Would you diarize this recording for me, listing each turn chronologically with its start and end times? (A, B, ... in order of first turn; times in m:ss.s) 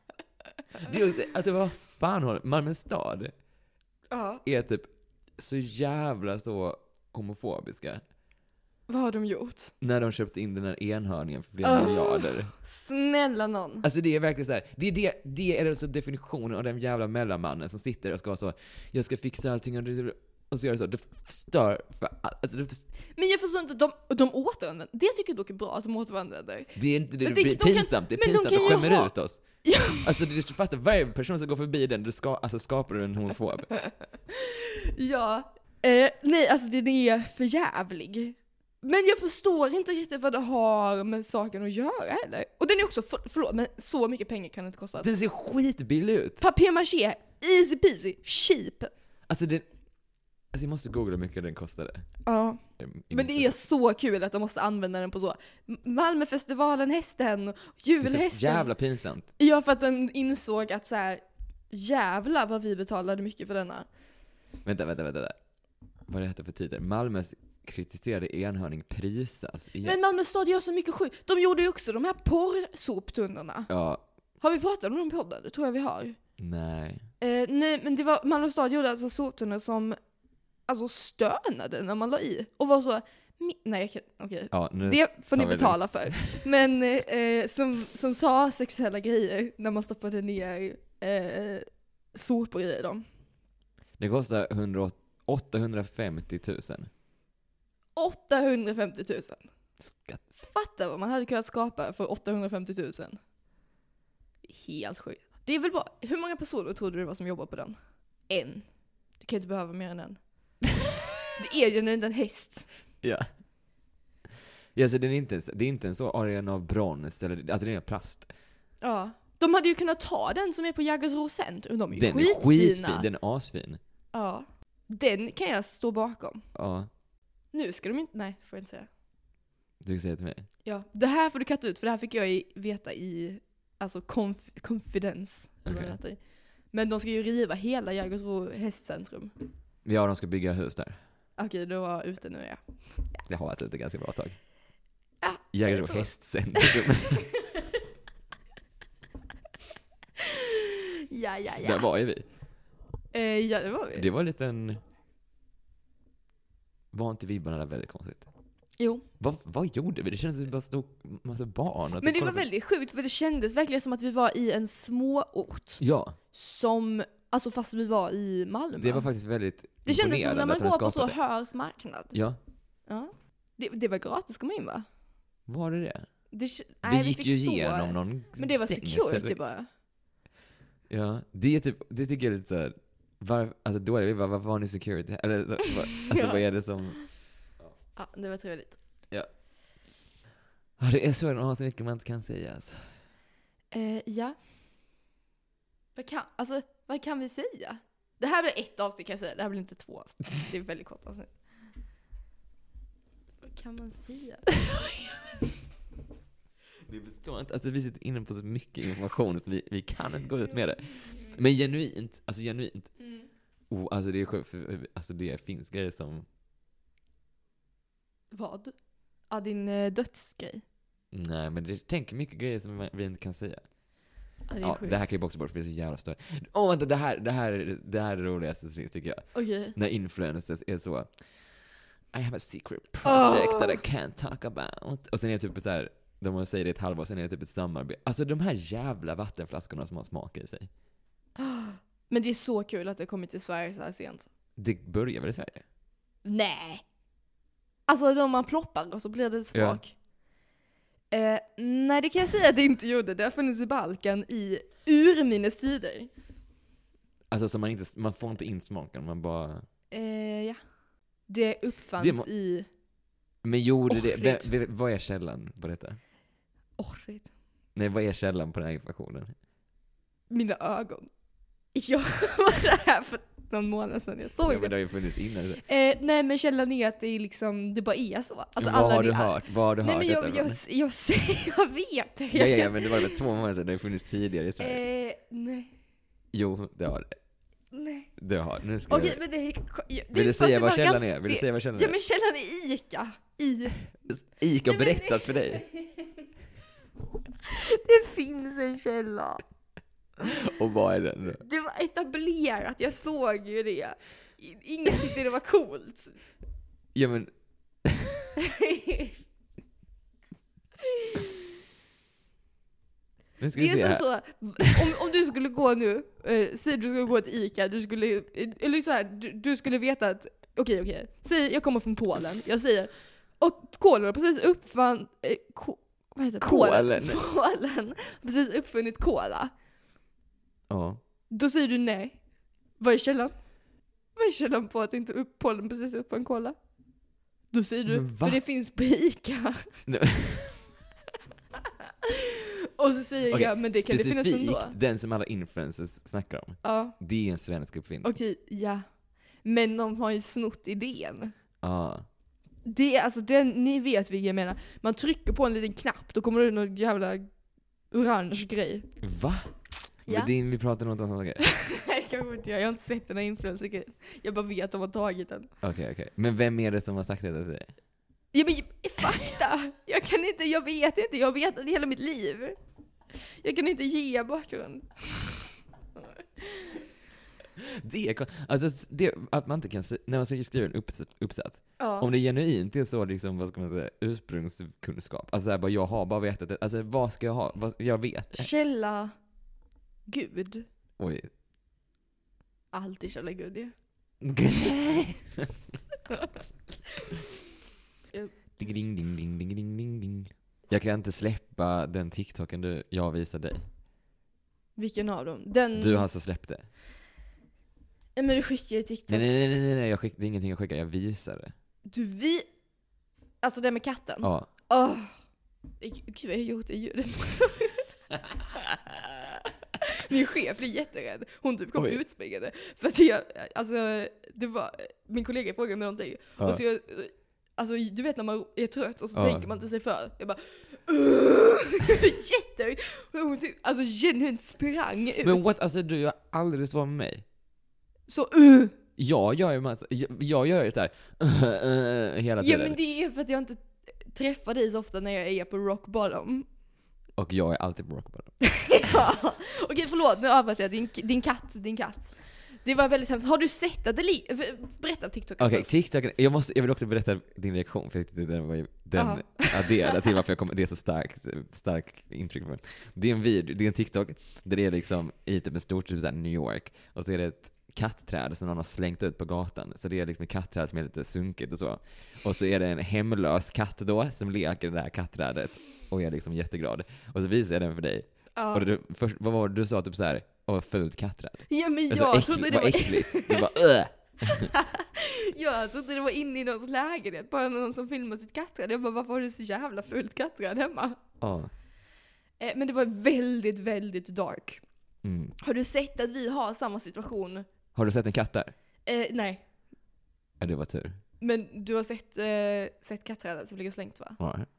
0:00.7-0:03.3 A
0:04.1-0:04.4 B
0:04.4-0:08.0 A
0:08.9-0:09.7 B
0:09.8-0:12.5 A
0:11.6-0:13.9 B
0:13.8-0:22.8 A
0:23.1-0:29.1 B
0:26.7-0:33.8 A
0:29.6-0:30.0 B
0:33.8-0:45.1 B
0:45.0-0:46.4 A
0:46.4-0:48.9 B
0:49.3-0:49.6 A
0:50.5-0:52.0 A
0:52.2-0:58.7 B
0:52.8-0:53.5 A
0:58.0-0:59.3 A
0:59.4-1:03.9 B
1:04.6-1:05.4 A
1:06.1-1:10.0 A
1:09.8-1:13.7 B
1:13.7-1:14.0 A
1:14.4-1:16.2 B
1:16.4-1:17.0 A
1:17.2-1:20.0 B
1:20.7-1:33.0 B
1:24.5-1:26.4 A
1:34.0-1:36.9 A
1:38.0-1:39.5 B
1:39.8-1:40.2 A
1:40.3-1:43.2 B
1:44.4-1:48.7 B
1:49.2-1:50.2 B
1:51.4-1:52.7 B
1:53.0-1:53.3 A
1:54.7-1:58.3 A
1:58.8-2:03.1 B
2:01.9-2:03.8 A
2:04.1-2:06.4 B
2:06.5-2:06.9 A
2:07.5-2:08.9 B
2:09.8-2:10.5 A
2:10.6-2:16.2 B
2:15.6-2:16.0 A
2:16.7-2:19.3 B
2:19.8-2:21.0 A
2:21.4-2:23.2 B
2:23.3-2:24.4 A
2:25.2-2:26.8 B
2:25.5-2:27.3 A
2:30.2-2:31.9 B
2:31.6-2:32.2 A
2:33.1-2:34.0 B
2:33.9-2:34.8 A
2:36.9-2:38.3 A
2:38.8-2:39.0 B
2:39.2-2:42.4 A
2:42.0-2:49.1 B
2:45.8-2:46.2 A
2:48.8-2:51.2 A
2:49.8-2:52.2 B
2:52.1-2:52.4 A
2:52.9-2:54.8 B
2:55.5-2:56.0 A
2:56.3-2:59.7 B
2:56.8-2:59.4 A
3:00.9-3:07.0 A
3:06.0-3:06.4 B
3:08.0-3:08.8 B
3:10.8-3:13.0 A
3:13.7-3:14.4 B
3:16.0-3:21.3 B
3:23.4-3:25.3 B
3:26.8-3:33.0 A
3:33.0-3:33.3 B
3:33.7-3:36.2 A
3:38.3-3:40.6 B
3:41.1-3:43.7 A
3:44.5-3:45.1 B
3:44.6-4:00.7 A
3:49.3-3:49.8 B
3:53.0-3:53.8 B
4:01.4-4:04.3 B
4:04.6-4:05.6 A
4:06.2-4:06.8 B
4:07.9-4:09.9 B
4:09.5-4:09.8 A
4:11.1-4:16.1 B
4:17.3-4:19.6 A
4:19.9-4:20.6 B
4:21.3-4:22.7 B
4:22.0-4:22.3 A
4:23.4-4:26.0 A
4:23.9-4:24.5 B
4:26.8-4:27.3 B
4:27.7-4:29.3 A
4:30.3-4:31.1 B
4:31.7-4:34.8 B
4:34.4-4:35.6 A
4:35.6-4:43.2 B
4:38.6-4:40.6 A
4:42.3-4:44.8 A
4:44.6-4:45.7 B
4:46.3-4:47.2 A
4:47.7-4:48.1 B
4:48.2-4:49.2 A
4:48.9-4:53.9 B
4:50.1-4:52.0 A
4:54.0-4:55.6 A
4:54.6-4:56.2 B
4:57.4-4:59.4 B
5:00.2-5:01.4 A
5:01.4-5:06.2 B
5:06.9-5:07.3 A
5:07.8-5:08.1 A
5:08.4-5:09.2 B
5:13.4-5:14.0 A
5:13.5-5:29.5 B
5:26.4-5:27.2 A
5:30.7-5:31.0 A
5:31.3-5:32.2 B
5:32.8-5:33.4 B
5:34.2-5:36.6 B
5:37.5-5:39.8 B
5:37.9-5:38.4 A
5:39.9-5:40.6 A
5:42.0-5:44.8 B
5:43.3-5:48.1 A
5:46.6-5:47.0 B
5:48.0-5:51.3 B
5:51.6-5:52.0 A
5:52.6-5:57.3 B
5:57.9-5:58.9 B
5:59.0-5:59.5 A
6:00.1-6:01.4 A
6:01.4-6:05.5 B
6:05.6-6:07.7 A
6:08.3-6:12.6 B
6:13.2-6:15.5 B
6:16.4-6:16.8 B
6:17.6-6:28.5 A
6:21.8-6:22.1 B
6:28.3-6:29.2 B
6:30.1-6:30.7 B
6:31.0-6:31.3 A
6:32.7-6:33.7 B
6:34.2-6:35.5 A
6:38.6-6:43.6 A
6:44.8-6:46.1 B
6:45.7-6:46.7 A
6:48.2-6:49.6 B
6:49.1-6:51.5 A
6:51.8-6:52.5 B
6:53.4-6:55.1 B
6:54.2-6:54.5 A
6:55.8-6:57.9 B
6:59.8-7:15.5 B
7:09.1-7:09.5 A
7:15.2-7:17.2 A
7:18.1-7:18.8 B
7:19.0-7:22.8 A
7:22.4-7:26.4 B
7:27.2-7:28.4 A
7:28.6-7:35.7 B
7:35.4-8:04.5 A
7:38.9-7:40.0 B
7:58.4-7:58.6 B
8:01.5-8:03.5 B
8:04.2-8:11.0 B
8:11.2-8:11.5 A
8:12.4-8:14.6 B
8:15.0-8:15.3 A
8:15.4-8:17.4 B
8:17.7-8:18.5 A
8:18.8-8:19.4 B
8:20.4-8:21.0 A
8:21.2-8:24.2 B
8:24.2-8:24.5 A